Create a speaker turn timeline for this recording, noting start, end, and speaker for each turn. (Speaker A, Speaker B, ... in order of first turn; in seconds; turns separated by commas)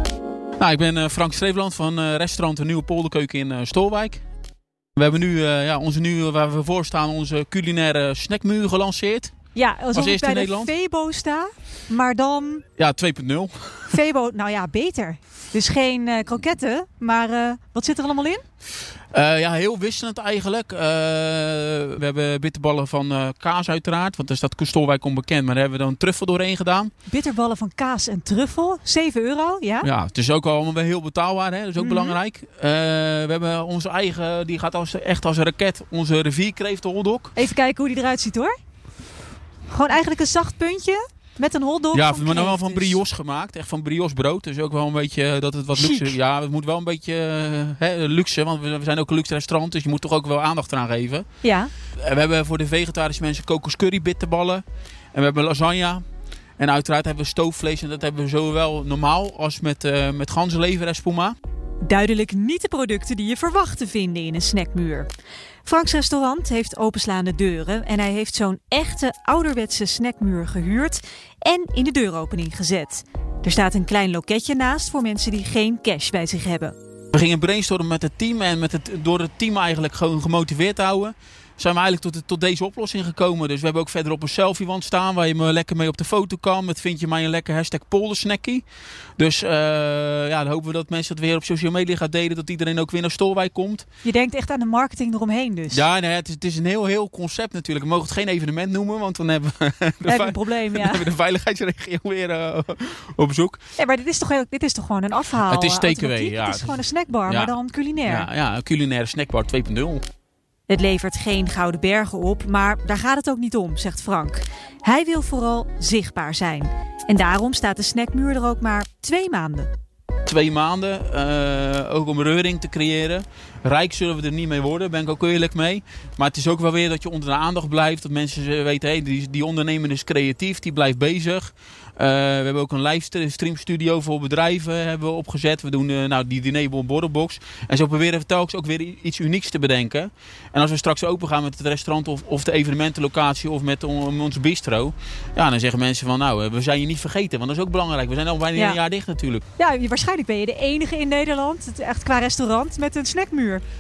Speaker A: 0.6-4.2, Speaker A: 5.0-9.3, Speaker B: 9.6-12.7, Speaker A: 9.9-10.7, Speaker A: 12.8-14.0, Speaker B: 13.9-18.4, Speaker A: 19.1-26.9, Speaker B: 27.1-29.9, Speaker A: 29.8-37.3, Speaker B: 31.8-32.2, Speaker B: 37.4-38.5, Speaker B: 39.7-43.0, Speaker A: 41.9-51.3, Speaker B: 45.8-46.1, Speaker B: 51.4-51.7, Speaker A: 52.0-56.0, Speaker A: 56.6-61.4, Speaker B: 61.9-65.1, Speaker B: 65.7-76.7, Speaker A: 77.1-88.6, Speaker A: 89.2-93.8, Speaker B: 94.0-95.8, Speaker A: 95.7-103.6, Speaker B: 100.1-101.1, Speaker B: 103.8-108.3, Speaker A: 105.5-110.0, Speaker B: 110.7-119.7, Speaker A: 120.3-149.4, Speaker B: 149.6-153.6